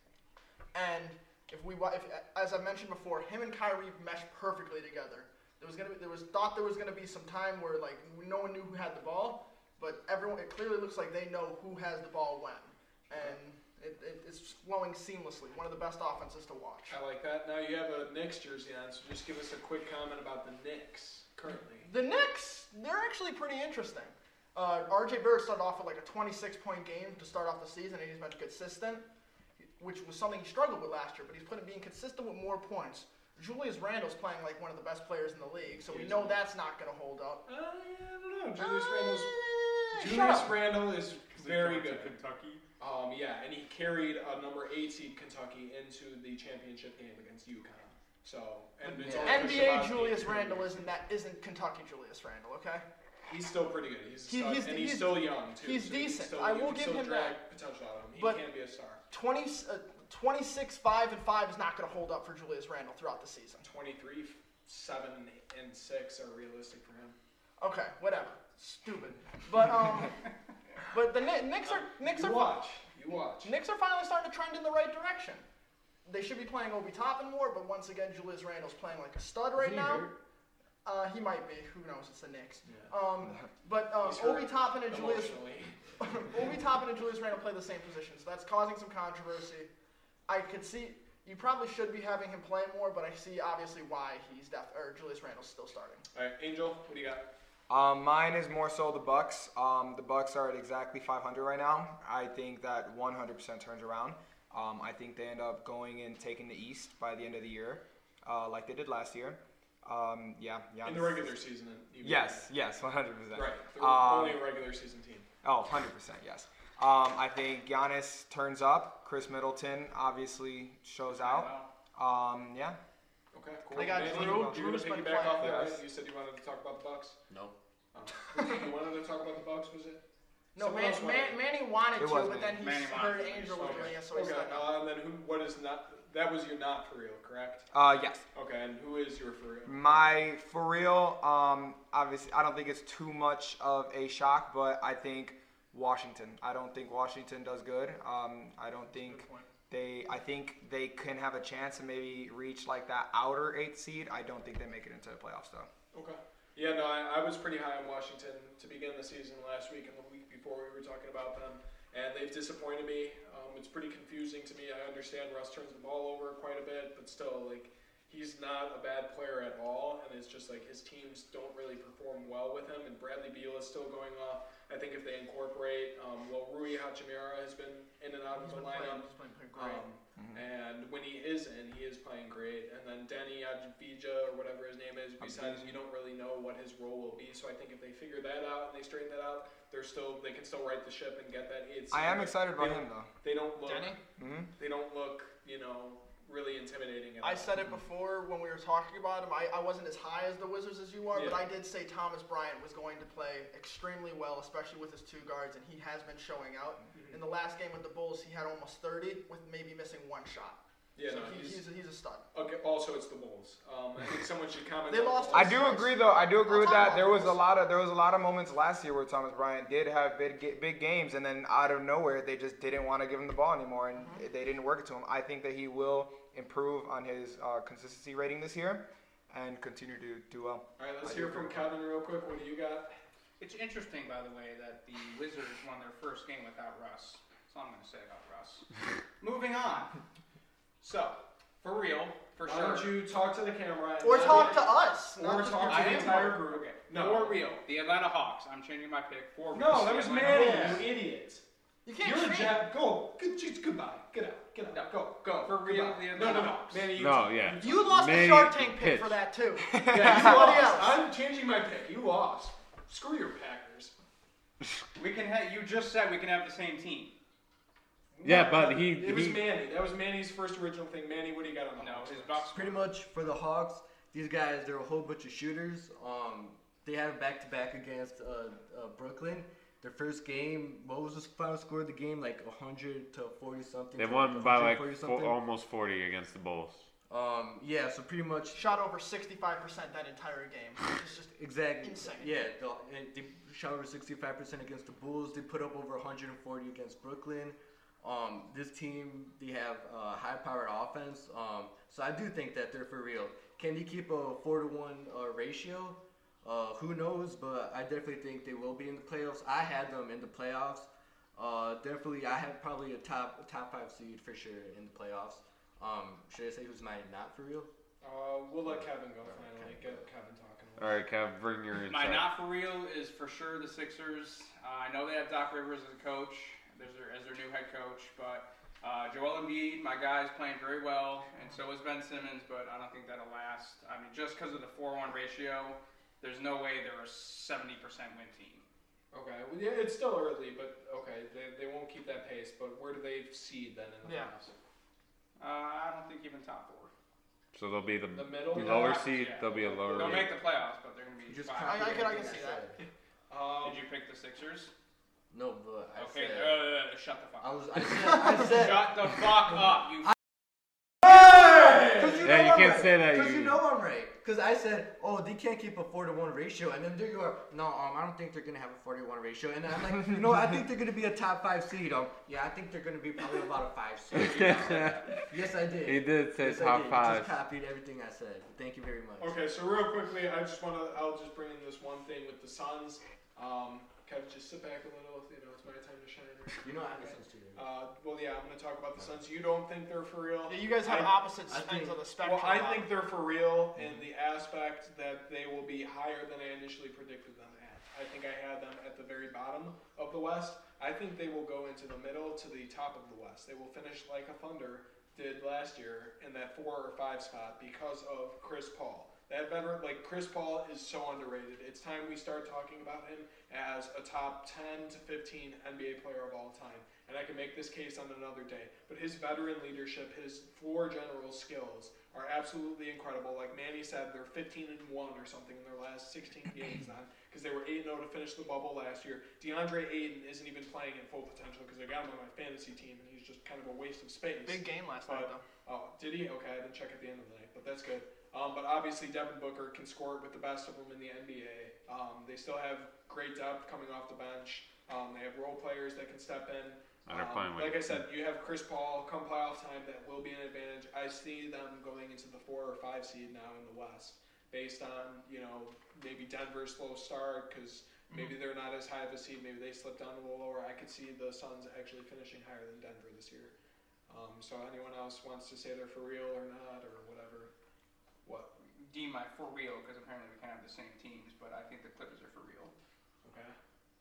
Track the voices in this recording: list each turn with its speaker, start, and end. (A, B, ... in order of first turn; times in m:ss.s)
0:00.7-0:17.0 A
0:16.9-0:21.9 B
0:21.8-0:29.0 A
0:29.8-0:37.4 A
0:35.8-0:36.4 B
0:37.5-0:42.2 B
0:38.6-0:40.6 A
0:41.4-0:42.6 C
0:42.8-0:50.8 B
0:48.8-0:52.8 A
0:49.0-0:49.7 D
0:53.3-0:59.0 B
0:54.3-0:57.4 A
0:58.2-0:58.4 A
0:59.1-1:03.6 A
1:03.6-1:07.2 B
1:07.6-1:10.2 A
1:10.9-1:12.6 A
1:11.6-1:13.5 B
1:13.4-1:15.4 A
1:16.0-1:20.1 A
1:19.5-1:20.1 D
1:20.8-1:25.4 A
1:22.6-1:22.9 B
1:24.0-1:26.5 B
1:26.0-1:29.7 A
1:30.3-1:36.0 A
1:36.1-1:37.3 B
1:37.7-1:51.3 E
1:50.8-1:52.5 B
1:52.0-1:54.4 E
1:53.3-1:55.3 B
1:55.4-2:02.8 E
2:01.1-2:01.7 C
2:03.3-2:07.2 B
2:03.7-2:04.6 E
2:03.7-2:05.7 A
2:05.4-2:05.7 E
2:07.3-2:07.6 D
2:07.9-2:10.0 B
2:08.3-2:08.7 A
2:10.6-2:11.4 B
2:10.6-2:14.7 A
2:12.0-2:12.6 E
2:12.6-2:14.0 C
2:13.6-2:17.7 B
2:17.7-2:18.2 E
2:18.3-2:20.1 B
2:19.6-2:35.7 E
2:29.0-2:29.4 A
2:35.9-3:14.0 B
2:58.3-2:59.8 A
3:00.2-3:00.4 E
3:05.2-3:05.7 E
3:11.9-3:13.1 E
3:13.6-3:14.0 A
3:14.2-3:14.5 E
3:14.6-3:17.6 B
3:17.2-3:32.3 A
3:21.1-3:21.4 B
3:26.9-3:27.2 B
3:31.0-3:31.6 B
3:32.3-3:35.8 B
3:34.9-3:37.4 A
3:35.3-3:51.7 E
3:50.8-3:52.9 B
3:53.4-3:58.6 C
3:59.2-4:00.0 C
4:00.8-4:03.0 C
4:02.4-4:07.5 B
4:04.0-4:06.4 A
4:04.2-4:04.6 C
4:05.6-4:10.9 C
4:09.5-4:11.4 B
4:10.3-4:10.8 A
4:11.8-4:12.7 A
4:12.0-4:17.9 B
4:14.7-4:16.9 C
4:16.9-4:19.2 F
4:17.6-4:21.0 A
4:19.7-4:20.3 E
4:19.8-4:23.9 B
4:25.0-4:27.1 C
4:28.1-4:32.6 B
4:28.2-4:29.4 F
4:31.8-4:32.8 C
4:32.5-4:45.4 D
4:44.0-4:46.9 F
4:47.1-4:48.6 D
4:48.5-4:52.4 A
4:51.4-5:17.7 D
5:18.0-5:21.0 B
5:18.6-5:20.0 D
5:20.8-5:22.3 F
5:21.8-5:38.6 C
5:39.1-5:44.5 B
5:44.0-5:44.3 A
5:45.4-5:46.9 C
5:47.5-5:50.3 F
5:48.1-5:50.3 B
5:48.6-5:52.0 C
5:51.3-5:52.8 D
5:51.6-5:52.7 A
5:52.8-5:53.8 B
5:53.6-5:54.7 C
5:55.3-5:56.8 D
5:56.0-6:00.1 C
5:57.4-5:58.9 D
6:01.0-6:19.4 D
6:02.2-6:03.6 F
6:14.1-6:15.3 F
6:15.8-6:17.3 F
6:19.2-6:31.2 B
6:26.6-6:27.6 D
6:30.5-6:32.9 A
6:31.5-6:32.0 D
6:32.1-7:43.5 B
7:14.4-7:15.4 A
7:27.1-7:28.0 F
7:44.1-7:47.5 B
7:48.2-7:48.5 B
7:48.7-7:52.7 C
7:53.2-7:53.6 B